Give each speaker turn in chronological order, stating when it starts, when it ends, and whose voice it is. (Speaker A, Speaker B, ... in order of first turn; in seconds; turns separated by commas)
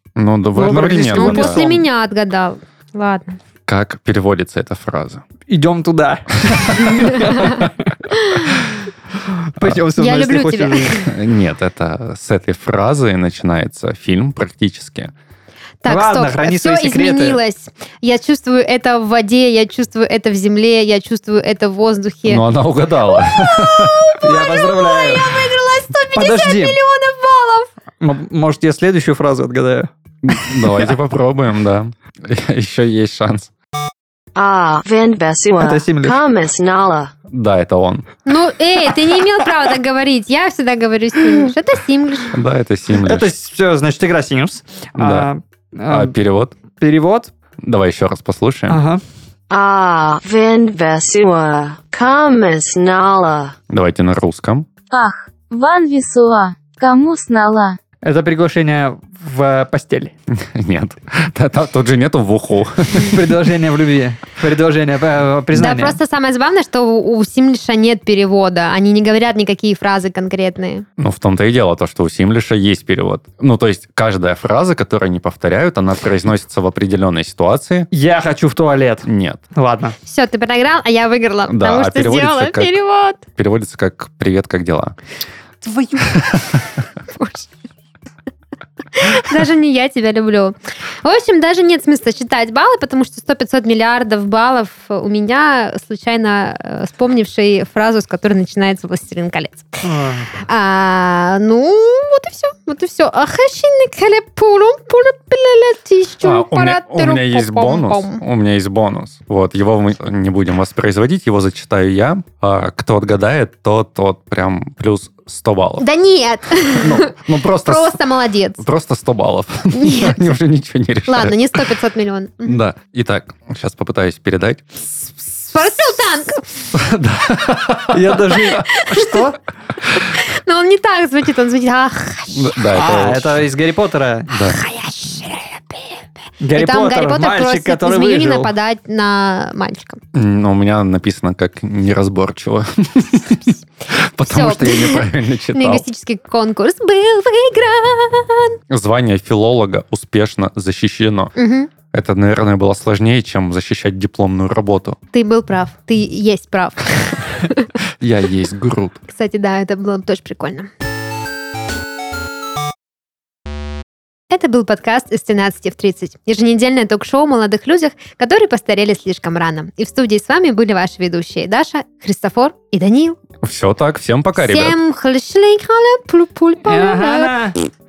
Speaker A: 0.1-1.6, Speaker B: 0.6-1.9, Speaker C: 1.0-3.4, Speaker A: 3.7-5.2, Speaker B: 5.5-11.0, Speaker C: 7.1-8.5, Speaker C: 10.0-11.1, Speaker A: 11.0-15.1, Speaker C: 15.8-22.4, Speaker B: 15.8-17.4, Speaker A: 22.2-24.1, Speaker C: 23.6-27.7, Speaker B: 24.2-25.3, Speaker B: 26.1-26.8, Speaker B: 28.0-29.9, Speaker A: 30.2-33.5, Speaker D: 34.3-37.1, Speaker B: 35.6-36.2, Speaker A: 37.3-38.1, Speaker C: 38.2-42.3, Speaker A: 42.3-43.3, Speaker B: 43.0-46.1, Speaker A: 45.0-45.3, Speaker A: 45.9-46.5, Speaker B: 46.7-47.3, Speaker A: 47.6-48.8, Speaker B: 48.7-49.0, Speaker D: 49.5-53.5, Speaker A: 53.7-54.7, Speaker E: 54.9-57.8, Speaker B: 58.0-60.1, Speaker A: 60.3-63.2, Speaker B: 62.9-66.0, Speaker C: 65.5-70.8, Speaker A: 71.0-77.9, Speaker B: 77.9-79.9, Speaker A: 79.0-79.4, Speaker C: 80.1-83.2, Speaker A: 81.5-82.8, Speaker A: 83.3-85.0, Speaker A: 86.2-86.6, Speaker C: 87.1-87.5, Speaker C: 88.9-99.8, Speaker B: 99.8-100.4, Speaker C: 100.4-108.2, Speaker A: 106.2-115.8, Speaker C: 115.8-118.6, Speaker A: 116.7-118.0, Speaker A: 118.6-121.6, Speaker C: 119.7-120.3, Speaker C: 121.1-122.6, Speaker A: 122.4-125.8, Speaker C: 125.5-126.5, Speaker A: 126.7-128.6, Speaker B: 127.9-129.4, Speaker C: 128.6-129.2, Speaker C: 130.2-132.6, Speaker A: 132.3-133.4, Speaker B: 132.7-134.3, Speaker A: 134.3-134.6, Speaker C: 134.4-140.0, Speaker B: 136.4-138.5, Speaker A: 140.1-145.8, Speaker C: 144.2-148.6, Speaker A: 148.7-151.3, Speaker C: 151.3-151.7, Speaker A: 151.9-155.0, Speaker C: 155.1-157.3, Speaker A: 158.0-159.0, Speaker C: 159.1-160.7, Speaker C: 164.3-173.2, Speaker A: 173.4-174.8, Speaker C: 174.3-177.3, Speaker B: 176.6-177.6